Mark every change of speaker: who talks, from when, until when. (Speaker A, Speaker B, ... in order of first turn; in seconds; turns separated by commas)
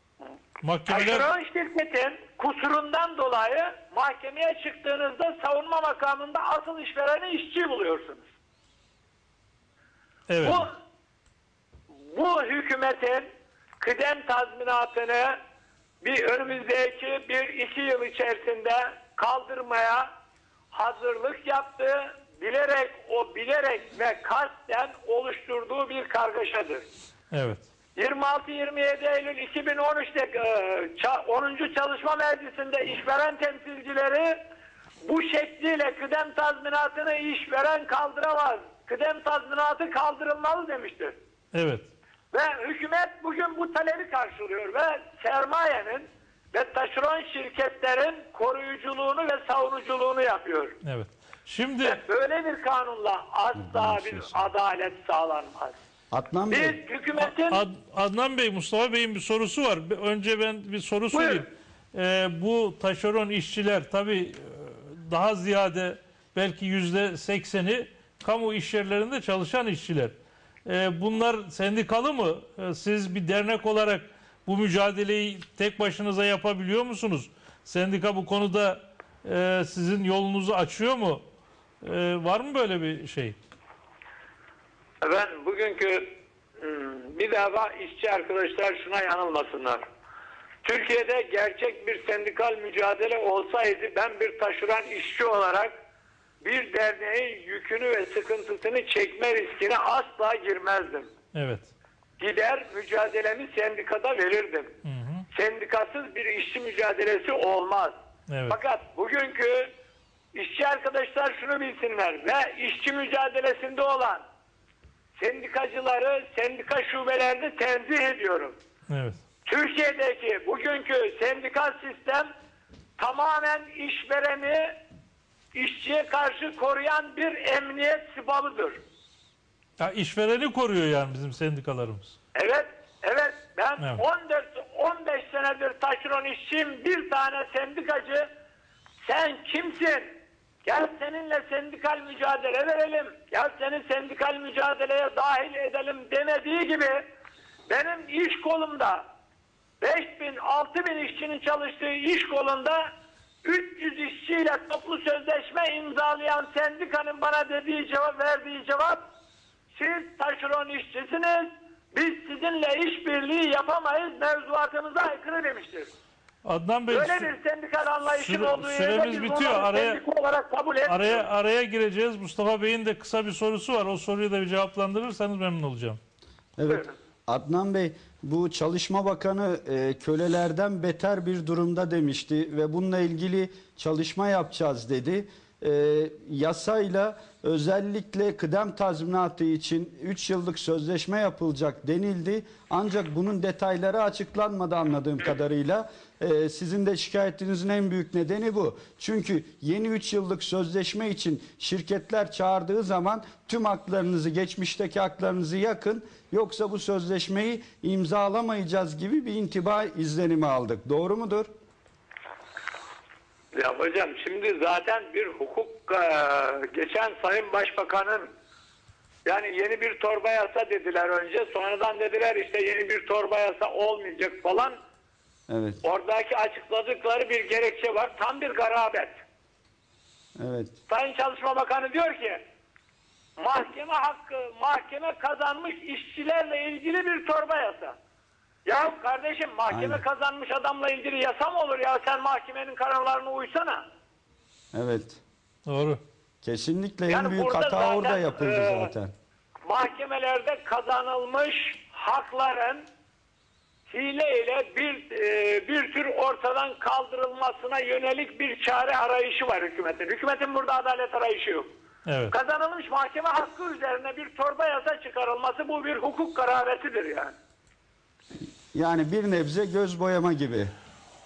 Speaker A: 0.6-1.3, Speaker B: 0.9-8.3, Speaker A: 10.3-10.7, Speaker B: 10.4-10.7, Speaker B: 12.1-13.3, Speaker B: 13.8-15.4, Speaker B: 16.0-20.1, Speaker B: 20.7-26.9, Speaker A: 27.3-27.7, Speaker B: 28.0-34.4, Speaker B: 35.0-41.2, Speaker A: 41.5-41.9, Speaker B: 42.3-50.8, Speaker A: 50.8-52.0, Speaker B: 51.8-55.8, Speaker C: 53.6-54.5, Speaker C: 56.1-56.8, Speaker B: 56.5-57.6, Speaker A: 57.2-81.2, Speaker B: 61.1-61.4, Speaker A: 81.8-83.4, Speaker B: 85.0-89.8, Speaker B: 90.6-95.7, Speaker B: 96.4-101.1, Speaker A: 101.3-101.7, Speaker B: 102.2-104.7, Speaker A: 104.8-105.3, Speaker B: 105.3-108.0, Speaker A: 108.3-108.6, Speaker B: 108.5-109.7, Speaker B: 110.3-114.2, Speaker B: 115.2-118.5, Speaker A: 118.9-119.2, Speaker B: 119.5-122.3, Speaker B: 123.0-124.8, Speaker B: 125.5-128.8, Speaker A: 129.8-132.2, Speaker B: 132.3-138.3, Speaker B: 139.1-140.1, Speaker B: 140.7-147.1, Speaker B: 147.7-149.1, Speaker B: 149.8-152.9, Speaker B: 153.4-159.0, Speaker B: 159.8-165.9, Speaker A: 166.4-167.3, Speaker B: 166.9-171.3, Speaker A: 168.1-170.0, Speaker A: 170.9-176.0, Speaker C: 176.6-211.5, Speaker B: 213.5-218.3, Speaker B: 219.3-224.8, Speaker C: 225.5-225.8, Speaker B: 225.8-229.2, Speaker C: 230.4-230.8, Speaker B: 230.9-232.4, Speaker B: 233.4-238.0, Speaker B: 238.7-243.8, Speaker C: 239.7-240.0, Speaker C: 244.7-245.2, Speaker A: 245.7-246.0, Speaker C: 246.4-249.1, Speaker B: 247.1-248.9, Speaker B: 249.7-252.9, Speaker B: 253.9-261.7, Speaker A: 262.1-262.4, Speaker B: 262.3-267.3, Speaker C: 268.7-270.7